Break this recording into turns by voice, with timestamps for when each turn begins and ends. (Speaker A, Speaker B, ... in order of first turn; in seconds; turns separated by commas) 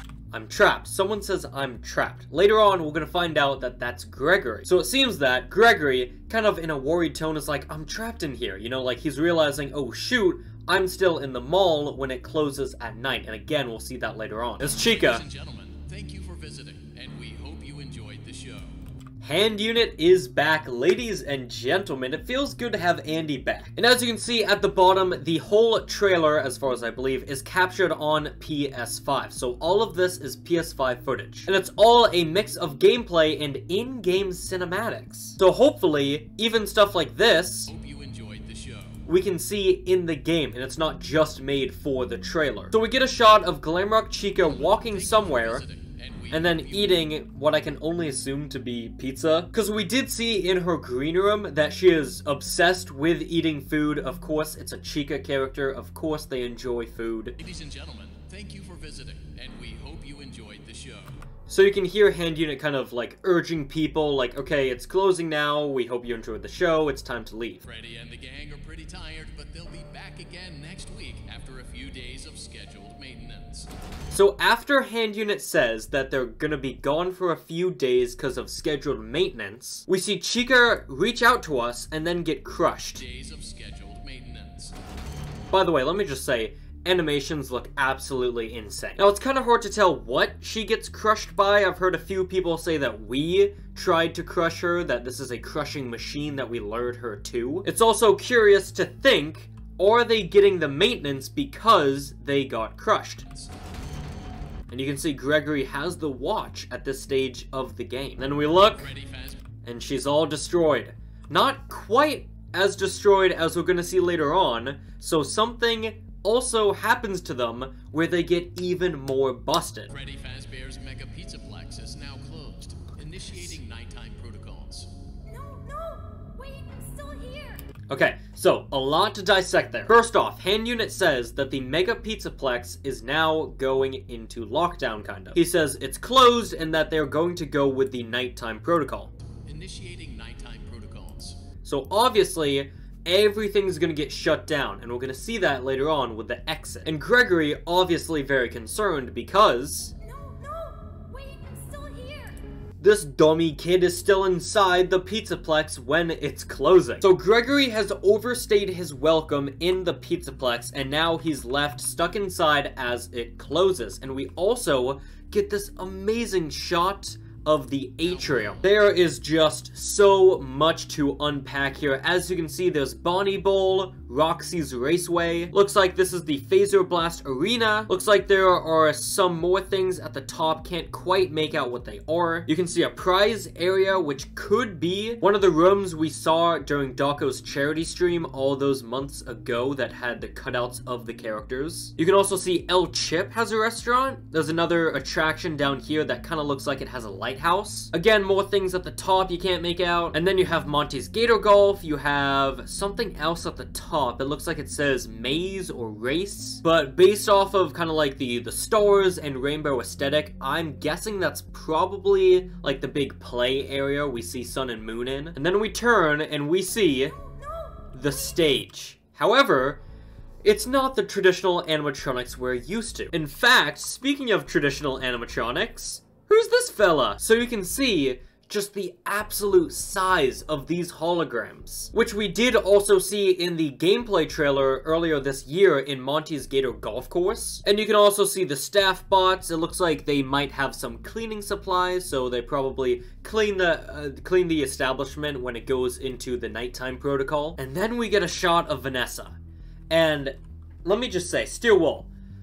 Speaker A: 0.3-15.2, Speaker B: 14.7-18.7, Speaker A: 19.2-37.7, Speaker B: 37.7-39.0, Speaker A: 39.0-45.6, Speaker B: 44.4-47.1, Speaker A: 46.3-57.4, Speaker B: 57.4-61.1, Speaker A: 61.5-67.6, Speaker B: 67.6-73.7, Speaker A: 74.1-83.0, Speaker B: 82.9-84.7, Speaker A: 85.5-103.2, Speaker A: 104.7-108.9, Speaker B: 108.4-109.4, Speaker A: 109.6-119.9, Speaker B: 119.9-124.9, Speaker C: 125.2-127.6, Speaker A: 127.9-139.1, Speaker B: 139.4-141.4, Speaker A: 141.6-149.9, Speaker C: 150.0-152.4, Speaker A: 152.8-217.2, Speaker B: 168.0-168.7, Speaker C: 217.0-218.3, Speaker A: 217.9-219.8, Speaker A: 220.4-249.4, Speaker A: 249.9-252.1